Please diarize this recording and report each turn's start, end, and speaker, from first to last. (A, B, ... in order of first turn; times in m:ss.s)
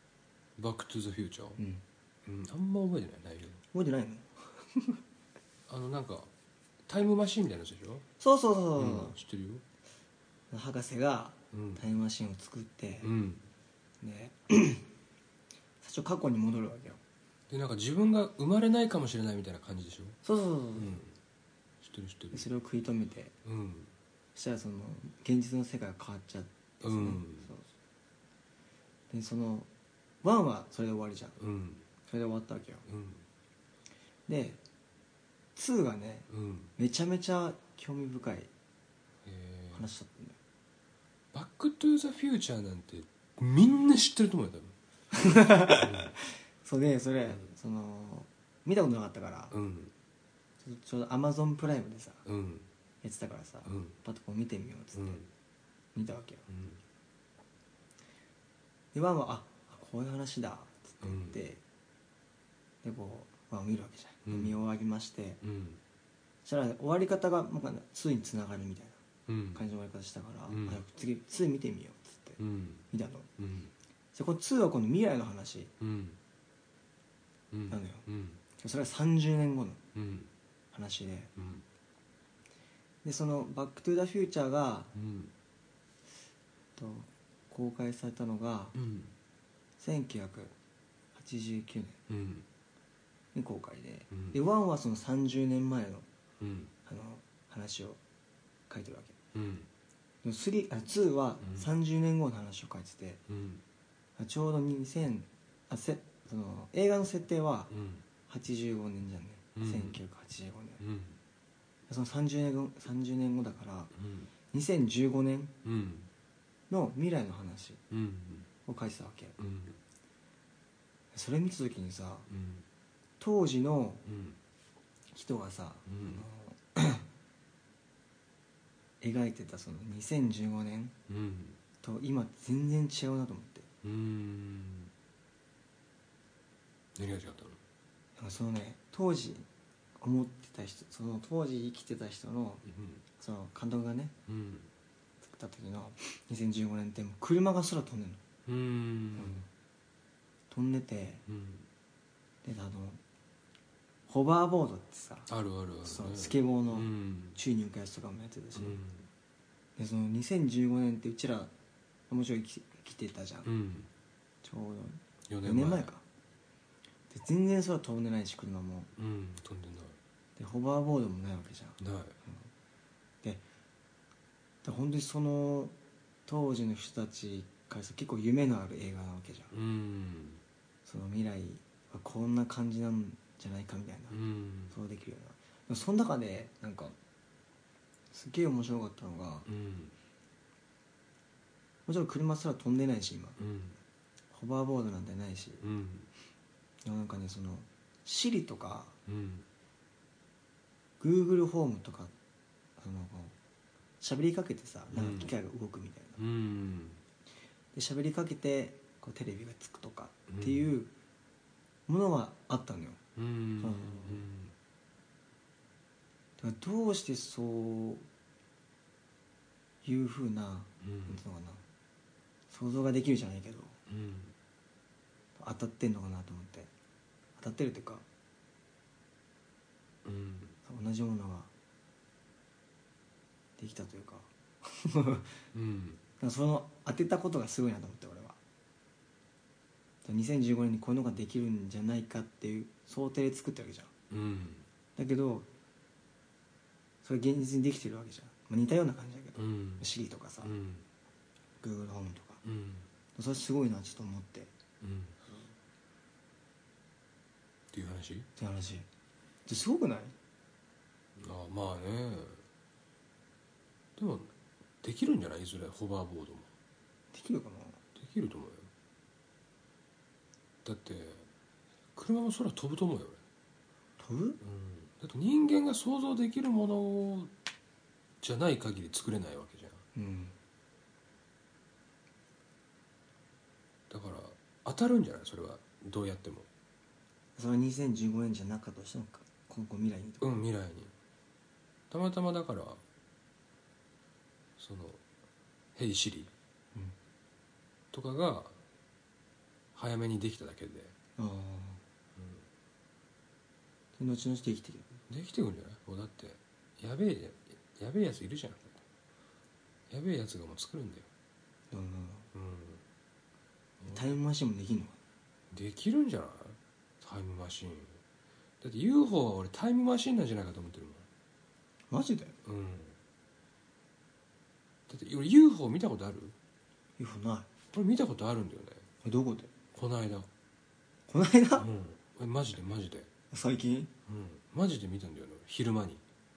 0:00.6-0:01.6 A
0:01.6-0:01.8 B
0:02.2-0:03.6 A
0:03.7-0:05.0 B
0:05.7-0:06.3 A
0:06.9-0:08.0 A
0:08.2-0:09.2 B
0:08.8-0:09.6 A
0:10.5-0:13.1 B
0:11.5-0:11.8 A
0:13.0-0:13.4 A
0:14.0-0:14.9 B
0:15.8-0:17.0 B
0:17.5-0:20.2 A
0:20.2-0:21.0 B
0:20.8-0:21.1 A
0:21.8-0:22.5 A
0:22.3-0:23.3 B
0:23.4-0:23.9 A
0:24.3-0:27.7 B
0:26.8-0:27.5 A
0:29.1-0:29.7 B
0:30.2-0:31.4 B
0:31.4-0:31.8 A
0:32.1-0:32.8 B
0:32.8-0:33.2 A
0:34.3-0:34.6 B
0:35.6-0:38.5 B
0:36.3-0:36.7 A
0:39.2-0:39.8 A
0:39.7-0:40.4 B
0:41.3-0:44.7 A
0:45.1-0:49.5 B
0:45.7-0:46.1 A
0:49.5-0:49.9 A
0:50.6-0:52.2 B
0:52.2-0:52.7 A
0:53.0-0:55.2 B
0:53.6-0:54.0 A
0:54.9-0:55.3 A
0:55.9-0:56.5 B
0:56.5-0:56.8 A
0:58.9-1:01.6 B
1:01.0-1:01.4 A
1:02.8-1:05.4 B
1:04.3-1:04.6 A
1:05.4-1:05.8 A
1:06.4-1:09.0 B
1:09.3-1:09.6 A
1:09.5-1:13.3 B
1:10.5-1:10.8 A
1:12.4-1:12.8 A
1:13.4-1:13.7 A
1:14.1-1:15.7 B
1:15.8-1:16.2 A
1:17.5-1:18.4 A
1:17.7-1:18.0 B
1:18.6-1:19.8 B
1:19.9-1:20.3 A
1:20.7-1:21.3 B
1:21.4-1:21.6 A
1:23.0-1:24.9 B
1:24.9-1:25.3 A
1:26.8-1:28.8 B
1:28.7-1:29.1 A
1:29.8-1:30.5 B
1:31.1-1:32.0 B
1:32.1-1:32.4 A
1:33.3-1:36.0 B
1:34.1-1:34.4 A
1:36.4-1:36.7 A
1:36.8-1:38.0 B
1:38.7-1:39.2 B
1:39.3-1:39.7 A
1:40.2-1:43.2 B
1:43.3-1:43.6 A
1:44.2-1:47.7 B
1:47.7-1:48.0 A
1:48.3-1:50.8 B
1:49.6-1:50.0 A
1:50.8-1:51.2 A
1:51.9-1:53.9 B
1:54.0-1:54.3 A
1:54.5-1:55.5 B
1:55.6-1:56.1 A
1:56.7-1:57.8 B
1:57.9-1:58.5 A
1:58.6-1:59.4 B
1:59.4-1:59.8 A
2:01.1-2:02.3 B
2:02.3-2:02.6 A
2:03.2-2:04.0 B
2:04.1-2:04.4 A
2:05.1-2:07.0 B
2:05.9-2:06.2 A
2:09.0-2:10.9 B
2:11.1-2:11.6 A
2:11.8-2:13.7 B
2:13.8-2:14.9 A
2:16.9-2:17.6 A
2:18.2-2:19.5 B
2:20.0-2:22.6 B
2:22.6-2:23.0 A
2:23.2-2:24.1 B
2:24.3-2:24.7 A
2:25.2-2:28.2 B
2:28.4-2:29.4 A
2:29.1-2:29.5 B
2:30.5-2:31.2 B
2:31.3-2:31.7 A
2:32.4-2:33.0 B
2:34.1-2:35.3 B
2:35.3-2:37.4 A
2:35.8-2:38.8 B
2:38.5-2:39.1 A
2:39.8-2:41.5 B
2:42.1-2:43.5 B
2:43.4-2:43.9 A
2:44.4-2:46.0 B
2:45.3-2:45.9 A
2:47.1-2:48.9 B
2:49.0-2:50.0 A
2:50.4-2:52.5 B
2:51.8-2:52.2 A
2:54.6-2:55.7 B
2:56.3-2:59.5 B
2:59.5-3:00.4 A
3:00.8-3:07.0 B
3:04.1-3:04.7 A
3:08.1-3:09.5 B
3:09.4-3:09.9 A
3:11.9-3:13.4 B
3:13.4-3:13.8 A
3:14.3-3:15.6 B
3:15.6-3:16.1 A
3:16.8-3:19.0 B
3:19.0-3:19.5 A
3:21.0-3:22.1 B
3:22.8-3:23.3 B
3:24.0-3:26.2 B
3:24.9-3:25.3 A
3:26.2-3:27.0 A
3:27.7-3:30.9 B
3:30.3-3:30.7 A
3:31.9-3:33.0 B
3:33.2-3:34.5 A
3:33.6-3:34.2 B
3:36.4-3:38.1 B
3:39.8-3:41.6 B
3:40.8-3:41.2 A
3:42.5-3:43.8 B
3:43.9-3:44.3 A
3:45.4-3:46.7 B
3:47.4-3:48.0 B
3:50.0-3:50.5 A
3:50.6-3:51.5 B
3:53.6-3:55.4 B
3:55.5-3:56.0 A
3:56.2-3:58.4 B
4:00.0-4:03.9 B
4:04.1-4:04.6 A
4:05.0-4:05.5 B
4:07.0-4:10.6 B
4:09.4-4:09.9 A
4:10.4-4:10.8 A
4:11.6-4:12.4 B
4:12.4-4:12.9 A
4:13.1-4:14.5 B
4:14.8-4:15.2 A
4:15.2-4:15.5 B
4:17.7-4:18.3 A
4:18.4-4:18.8 B
4:19.4-4:20.1 B
4:21.2-4:22.4 A
4:24.0-4:26.5 A
4:27.1-4:27.8 B
4:28.0-4:28.7 A
4:30.6-4:31.2 A
4:31.9-4:33.2 A
4:34.0-4:34.4 B
4:34.4-4:37.3 A
4:38.2-4:39.8 A
4:39.9-4:40.3 B
4:43.9-4:46.5 A
4:47.4-4:50.4 B
4:50.2-4:50.9 A
4:51.9-4:52.8 A
4:54.6-4:55.0 A
4:55.7-4:56.3 A
4:57.9-4:58.6 A
4:59.7-5:00.9 A
5:01.2-5:01.8 B
5:02.2-5:02.4 A
5:04.0-5:04.9 B
5:05.1-5:08.8 A
5:09.9-5:11.1 A
5:11.7-5:12.3 B
5:12.3-5:12.8 A
5:13.9-5:15.0 B
5:15.5-5:17.9 A
5:18.6-5:21.0 A
5:21.9-5:22.4 B
5:22.4-5:22.9 A
5:24.9-5:26.3 A
5:27.0-5:27.5 B
5:27.7-5:28.8 A
5:29.0-5:29.5 B
5:29.7-5:30.3 A
5:31.1-5:31.7 B
5:31.6-5:33.1 A
5:33.3-5:33.9 B
5:34.1-5:36.0 A